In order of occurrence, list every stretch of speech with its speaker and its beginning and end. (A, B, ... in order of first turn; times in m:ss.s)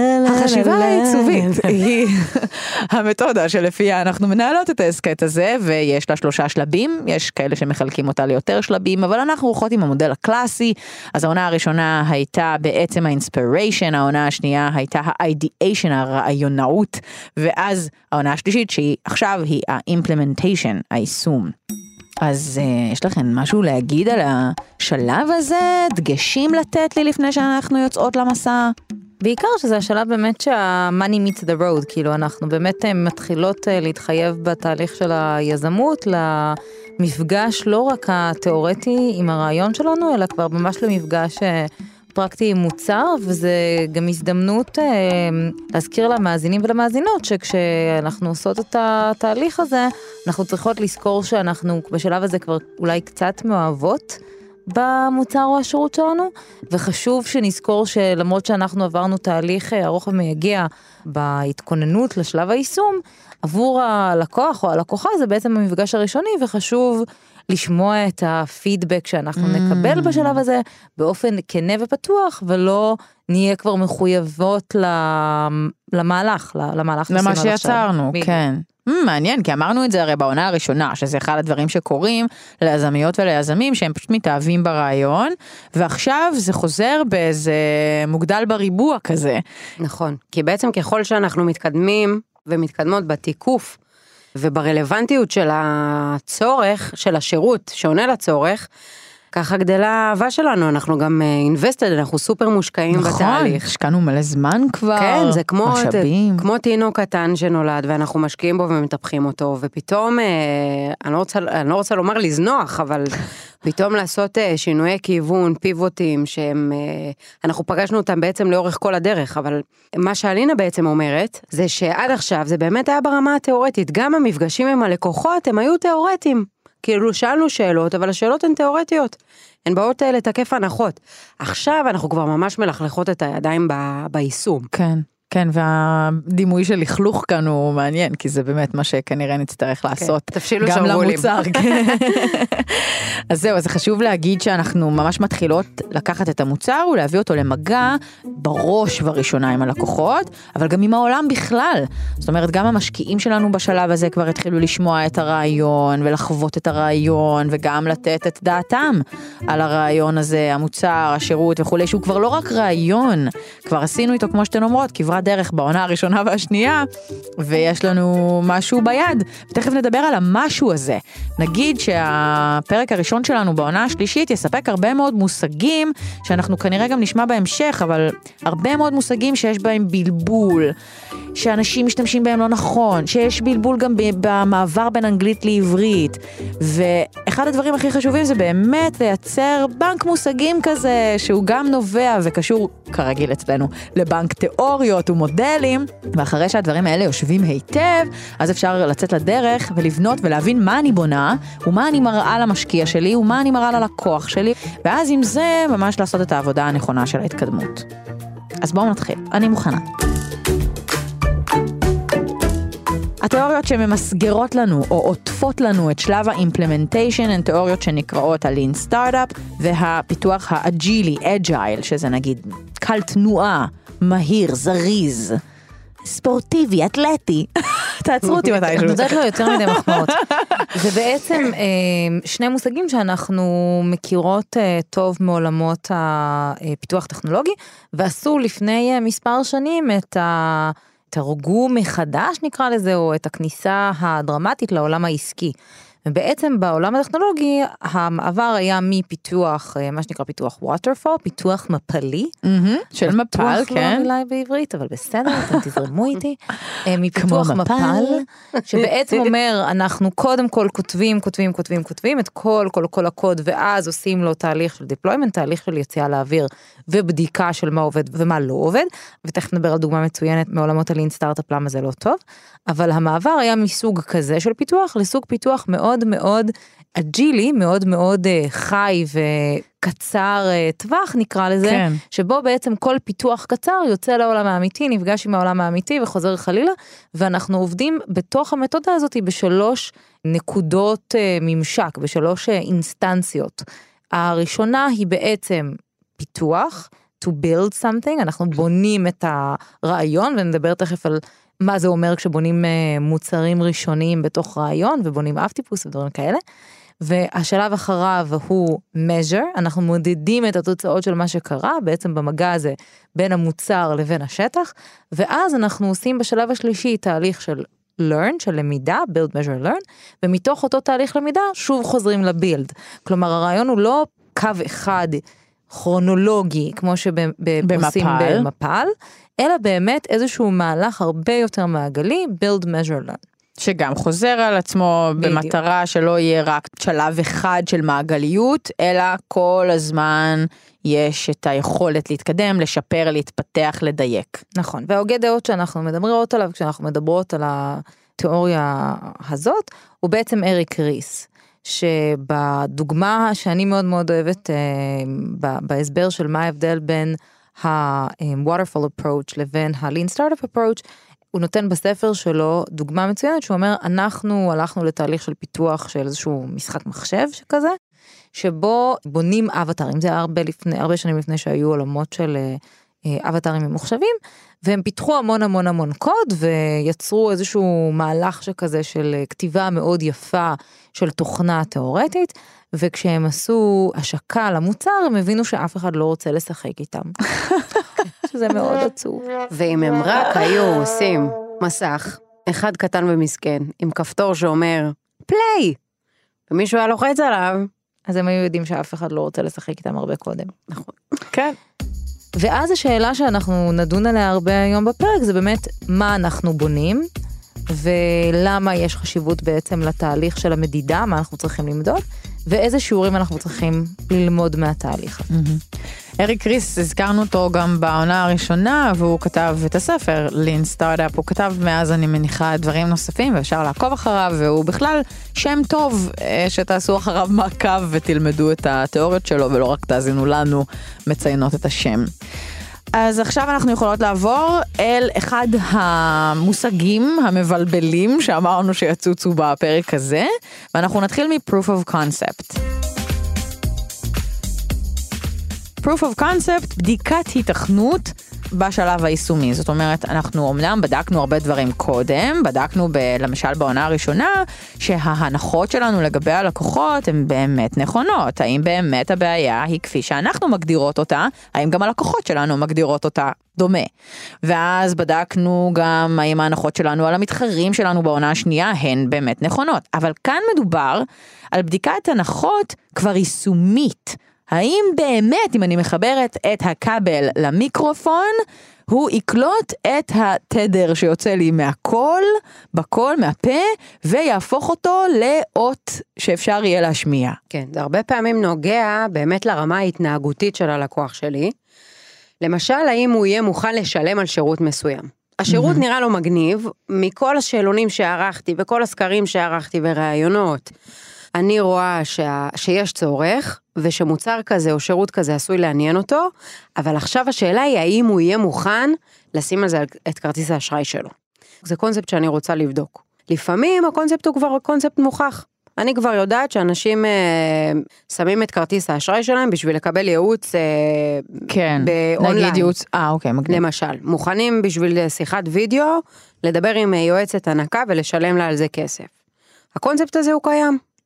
0:00.2-0:21.5 A
0:00.8-0:01.4 B
0:22.2-0:28.7 A
0:29.2-1:18.3 C
1:09.4-1:10.4 A
1:17.1-1:29.4 A
1:29.8-1:33.8 B
1:34.4-1:38.7 B
1:39.3-1:43.6 B
1:42.9-1:46.4 A
1:45.0-2:14.7 B
2:14.7-2:46.9 A
2:20.0-2:21.6 B
2:47.4-3:00.7 A
3:01.3-3:27.8 A
3:28.6-3:30.0 A
3:33.2-3:45.4 A
3:46.0-3:50.7 A
3:48.6-4:05.5 C
4:06.0-4:12.3 C
4:12.4-4:14.1 A
4:13.1-5:06.4 C
4:17.1-4:18.2 A
4:41.6-4:42.0 A
5:07.0-5:33.2 C
5:27.6-5:28.5 A
5:33.6-5:44.4 A
5:35.2-5:35.5 C
5:44.6-6:00.8 C
6:01.3-6:07.8 C
6:08.3-6:27.2 C
6:28.0-6:29.3 C
6:29.5-6:35.8 B
6:36.5-6:37.7 B
6:38.1-6:40.6 C
6:41.3-6:41.6 A
6:42.4-6:47.1 C
6:47.7-6:55.3 C
6:55.3-6:55.6 A
6:56.2-7:12.1 A
7:12.9-7:22.6 A
7:25.8-7:43.9 A
7:44.4-7:58.4 A
7:58.9-8:07.4 A
8:07.5-8:11.5 B
8:12.4-8:20.7 B
8:15.5-8:15.8 A
8:21.4-8:31.1 B
8:31.6-8:42.7 B
8:41.5-8:43.6 A
8:43.5-8:49.1 B
8:49.7-8:50.8 B